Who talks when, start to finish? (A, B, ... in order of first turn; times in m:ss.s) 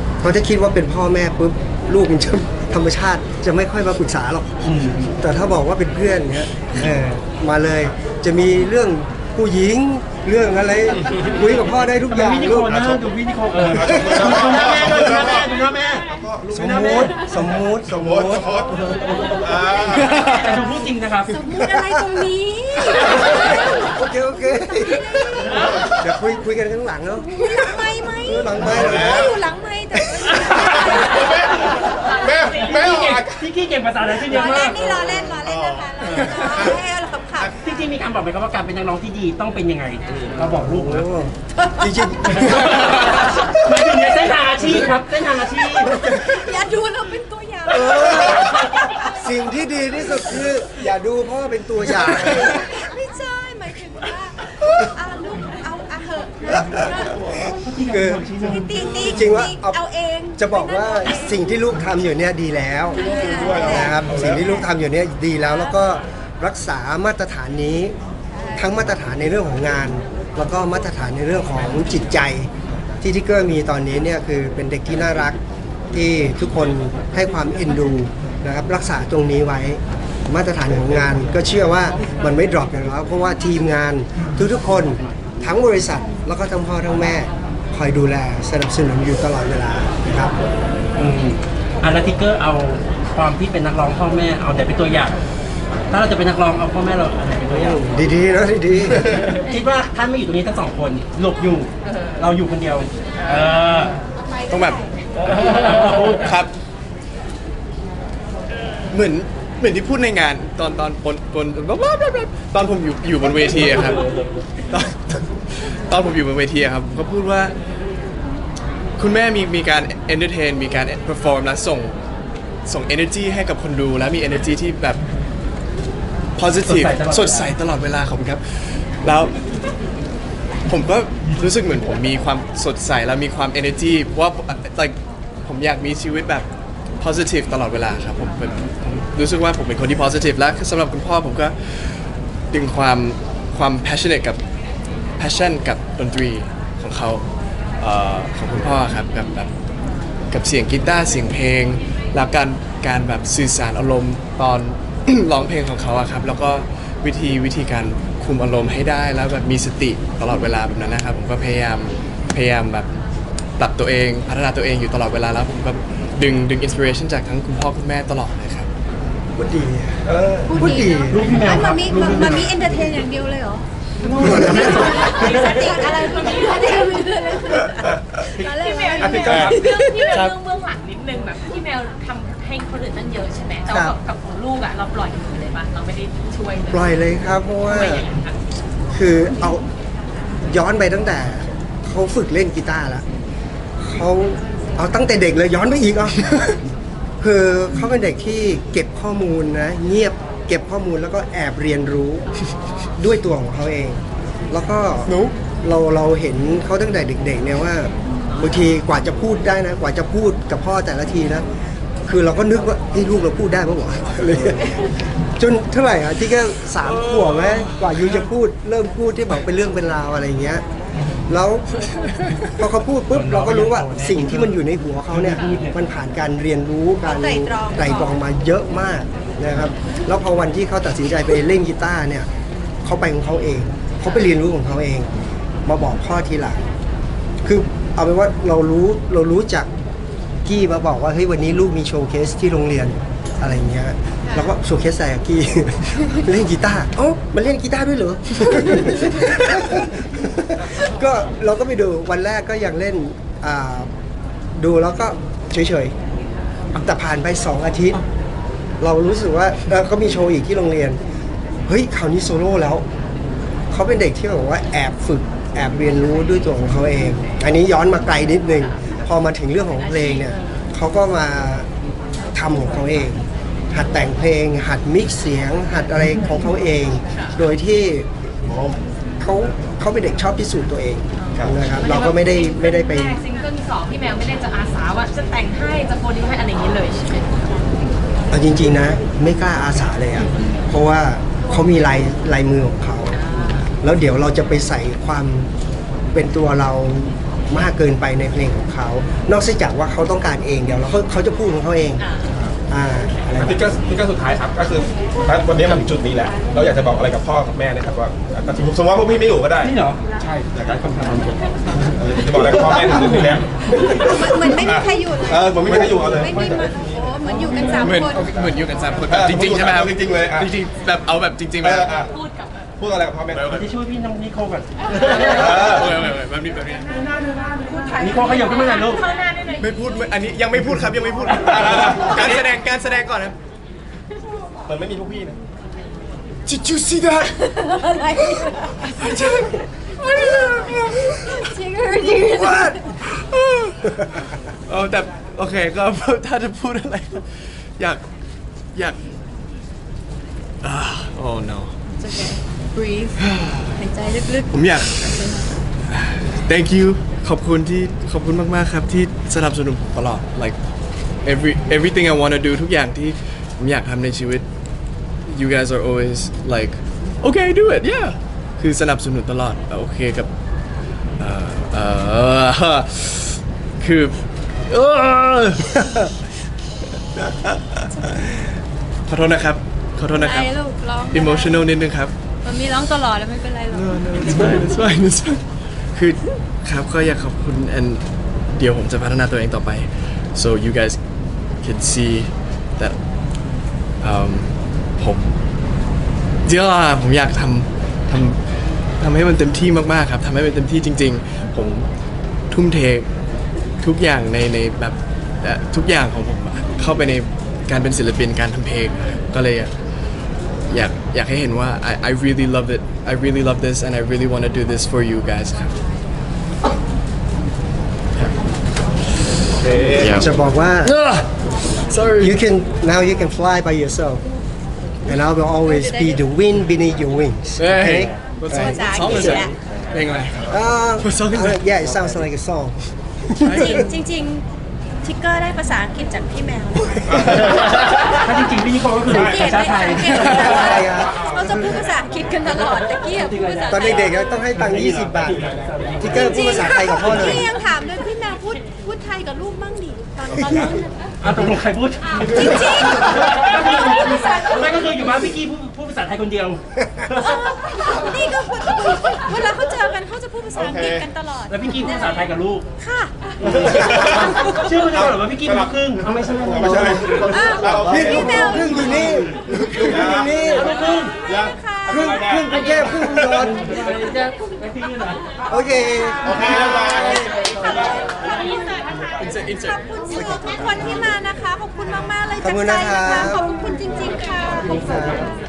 0:00.2-0:12.8 A
0:04.6-0:05.1 B
0:12.1-0:17.3 B
0:13.9-0:15.5 C
0:16.2-0:16.5 C
0:16.5-0:18.7 A
0:17.9-0:20.3 C
0:20.1-0:20.4 D
0:20.2-0:21.4 B
0:21.3-0:23.9 E
0:21.6-0:22.1 A
0:23.0-0:29.2 A
0:24.9-0:25.9 E
0:27.2-0:32.2 E
0:28.8-0:29.3 C
0:30.0-0:30.3 A
0:31.1-0:31.7 C
0:31.7-0:34.8 B
0:32.2-0:33.2 C
0:34.2-0:37.9 E
0:37.5-0:41.1 B
0:40.6-0:43.9 A
0:41.6-0:41.9 E
0:42.4-0:46.0 B
0:45.7-0:46.4 A
0:45.9-0:49.2 E
0:47.7-0:52.7 A
0:52.2-0:57.2 E
0:57.0-0:59.5 B
0:57.9-0:58.3 A
0:58.5-1:01.4 E
0:59.0-0:59.8 A
1:00.4-1:08.0 A
1:02.9-1:04.7 E
1:03.1-1:04.4 C
1:05.4-1:05.7 E
1:08.4-1:08.6 E
1:08.6-1:12.5 A
1:13.0-1:15.4 A
1:15.9-1:30.3 A
1:31.0-1:35.2 B
1:35.9-1:37.8 B
1:37.6-1:39.4 A
1:39.3-1:44.0 B
1:44.3-1:44.8 E
1:44.5-1:44.8 D
1:45.4-1:46.2 B
1:46.1-1:46.5 D
1:48.9-1:54.1 D
1:54.7-1:57.6 D
1:59.0-2:01.9 D
2:02.7-2:05.0 D
2:06.4-2:09.4 D
2:06.6-2:07.5 B
2:10.7-2:16.5 D
2:17.0-2:22.0 D
2:22.5-2:24.4 D
2:25.2-2:27.2 D
2:27.8-2:29.5 D
2:30.3-2:42.9 D
2:43.6-2:48.7 D
2:49.4-2:51.4 A
2:50.1-2:50.4 C
2:50.5-2:53.6 E
2:51.1-2:52.5 B
2:54.0-2:55.8 B
2:54.2-2:55.0 A
2:54.3-3:00.3 E
2:55.2-2:56.9 F
2:58.5-3:06.9 F
2:59.0-2:59.6 C
3:03.7-3:04.0 A
3:06.7-3:08.1 A
3:07.6-3:08.4 F
3:08.9-3:09.6 A
3:10.5-3:13.0 A
3:13.8-3:16.6 A
3:17.2-3:22.3 A
3:23.0-3:31.4 A
3:25.1-3:25.4 D
3:32.1-3:34.8 A
3:35.4-3:40.6 A
3:36.8-3:38.2 D
3:41.3-3:41.8 A
3:42.0-3:42.5 D
3:42.5-3:52.3 A
3:43.1-3:44.6 B
3:45.2-3:45.7 B
3:47.0-3:48.2 E
3:52.8-3:55.1 A
3:55.7-3:56.6 A
3:57.4-3:59.7 A
4:00.4-4:13.9 A
4:04.2-4:04.5 E
4:14.6-4:16.0 A
4:16.7-4:18.0 A
4:18.8-4:21.0 A
4:21.7-4:22.8 A
4:23.7-4:31.7 A
4:32.3-4:38.1 A
4:38.5-4:38.8 C
4:39.2-4:43.2 A
4:41.2-4:47.5 F
4:48.3-4:55.5 A
4:53.1-4:53.7 F
4:56.1-5:02.0 A
5:02.0-5:02.3 F
5:02.7-5:03.6 A
5:03.4-5:09.7 C
5:09.6-5:11.2 B
5:10.5-5:11.4 C
5:11.9-5:18.5 C
5:13.9-5:18.4 E
5:17.8-5:22.0 D
5:19.1-5:20.5 C
5:21.6-5:22.1 C
5:22.1-5:22.6 F
5:22.8-5:23.7 C
5:23.3-5:23.6 D
5:23.5-5:25.8 B
5:25.2-5:25.9 C
5:25.5-5:27.0 D
5:27.7-5:28.9 E
5:28.0-5:29.1 B
5:29.2-5:29.6 F
5:29.6-5:33.4 D
5:31.5-5:32.2 C
5:34.6-5:35.4 C
5:36.5-5:37.4 D
5:37.4-5:42.9 E
5:39.0-5:41.5 D
5:42.2-5:42.8 A
5:43.0-5:47.3 D
5:47.8-5:48.0 D
5:48.7-5:49.0 D
5:50.6-5:51.7 D
5:52.0-5:55.6 E
5:53.2-5:53.8 D
5:54.5-5:55.0 D
5:55.9-6:00.6 D
6:01.2-6:04.4 D
6:05.3-6:10.3 D
6:11.2-6:16.1 D
6:17.2-6:18.4 D
6:17.9-6:18.3 E
6:19.1-6:20.5 D
6:20.1-6:21.7 E
6:21.1-6:22.1 D
6:22.4-6:24.6 E
6:23.7-6:25.4 D
6:25.9-6:31.0 D
6:31.6-6:33.0 D
6:34.0-6:35.4 D
6:36.4-6:38.4 D
6:39.0-6:41.9 D
6:42.5-6:43.1 D
6:43.8-6:49.7 D
6:50.7-6:55.8 D
6:59.6-7:00.2 C
7:00.0-7:00.3 D
7:00.1-7:01.0 A
7:00.8-7:01.3 D
7:01.9-7:02.4 D
7:02.2-7:04.2 A
7:05.1-7:09.5 A
7:05.7-7:06.2 E
7:07.6-7:11.6 D
7:08.5-7:09.5 E
7:10.5-7:13.9 A
7:13.4-7:13.8 D
7:13.5-7:14.4 E
7:15.0-7:17.2 E
7:17.3-7:20.9 B
7:19.1-7:24.2 E
7:20.2-7:21.8 A
7:22.7-7:27.4 B
7:23.7-7:25.5 A
7:26.0-7:27.4 A
7:26.1-7:30.9 E
7:31.2-7:37.5 B
7:32.2-7:34.9 E
7:37.1-7:42.2 E
7:40.6-7:41.1 C
7:41.5-7:42.7 B
7:42.8-7:43.5 E
7:43.4-7:47.4 B
7:43.6-7:44.3 C
7:44.3-7:44.7 E
7:46.5-7:48.4 C
7:47.2-7:49.2 E
7:47.8-7:50.7 A
7:49.8-7:50.4 C
7:50.5-7:51.2 B
7:50.6-7:52.1 E
7:51.3-7:53.2 C
7:51.9-7:53.8 A
7:53.4-7:55.2 B
7:55.5-7:56.7 A
7:56.2-8:04.9 E
7:56.4-7:57.7 C
7:59.2-7:59.8 D
8:00.2-8:00.6 A
8:02.4-8:03.4 A
8:04.7-8:05.2 A